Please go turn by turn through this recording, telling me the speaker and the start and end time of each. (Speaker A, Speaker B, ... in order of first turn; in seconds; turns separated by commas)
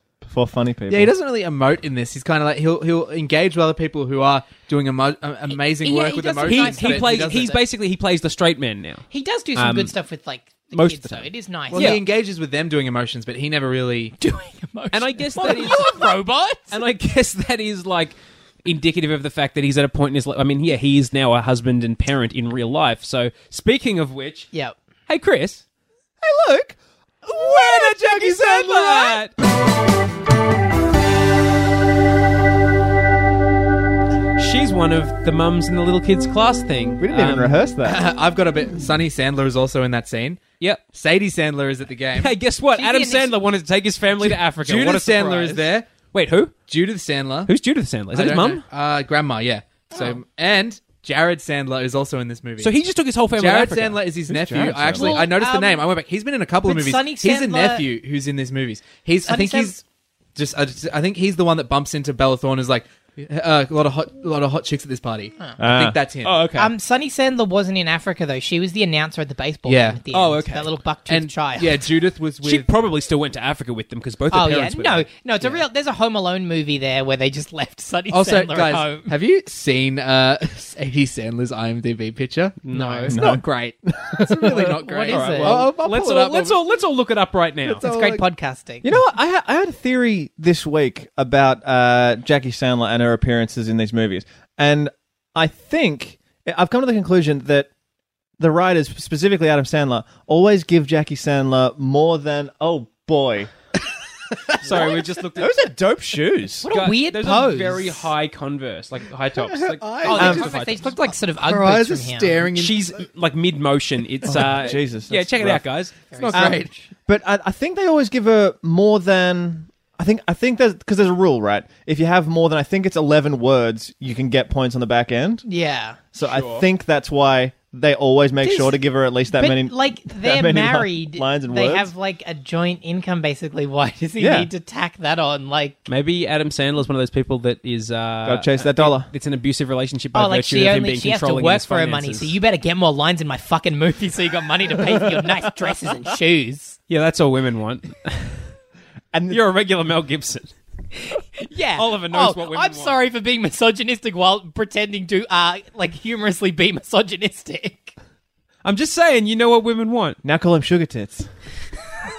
Speaker A: 0.2-1.1, Speaker B: 0.9-7.6, Speaker C: 5.5-7.6, Speaker D: 6.5-9.1, Speaker C: 9.1-12.0, Speaker D: 9.6-9.9, Speaker D: 10.7-12.0, Speaker B: 11.7-14.2, Speaker C: 14.2-16.8, Speaker D: 14.9-16.1, Speaker D: 16.7-24.5, Speaker D: 25.1-25.6, Speaker A: 26.2-29.2, Speaker D: 27.3-29.3, Speaker D: 34.4-37.6, Speaker A: 37.0-38.0, Speaker B: 37.8-42.3, Speaker D: 42.1-46.5, Speaker C: 42.7-43.4, Speaker B: 44.2-45.9, Speaker B: 46.7-47.5, Speaker D: 47.5-48.6, Speaker B: 48.1-52.7, Speaker C: 49.9-50.2, Speaker D: 52.6-54.1, Speaker B: 53.4-59.8, Speaker A: 54.3-55.2, Speaker C: 55.0-55.9, Speaker C: 56.6-57.9, Speaker C: 59.3-59.8, Speaker B: 60.4-66.4, Speaker A: 65.6-66.0, Speaker D: 66.2-66.7, Speaker C: 66.6-71.8, Speaker B: 69.7-70.0, Speaker D: 70.1-70.7, Speaker B: 71.1-72.7, Speaker D: 72.4-75.1, Speaker C: 74.3-79.1, Speaker B: 78.1-86.6, Speaker D: 82.7-83.2, Speaker A: 83.1-84.8, Speaker C: 84.6-85.6, Speaker D: 85.1-87.8, Speaker B: 87.7-88.2, Speaker C: 87.8-89.0, Speaker A: 88.8-97.7, Speaker A: 98.4-103.5, Speaker D: 104.6-105.6, Speaker A: 105.4-106.7, Speaker C: 106.6-108.1, Speaker D: 106.7-110.9, Speaker B: 109.4-112.9, Speaker C: 110.0-112.4, Speaker A: 110.1-110.5, Speaker D: 112.5-116.2, Speaker A: 114.2-115.7, Speaker C: 116.1-116.8, Speaker B: 116.2-116.7, Speaker A: 116.3-125.5, Speaker C: 125.5-126.0, Speaker A: 126.1-131.9, Speaker D: 126.2-126.7, Speaker C: 128.4-128.8, Speaker C: 129.3-135.8, Speaker A: 134.2-134.5, Speaker D: 135.9-142.3, Speaker A: 138.2-139.1, Speaker C: 140.1-146.8, Speaker D: 146.9-148.4, Speaker A: 149.1-149.4, Speaker D: 149.3-150.5, Speaker C: 151.0-157.9, Speaker D: 151.8-153.0, Speaker D: 158.6-160.2, Speaker A: 160.2-161.3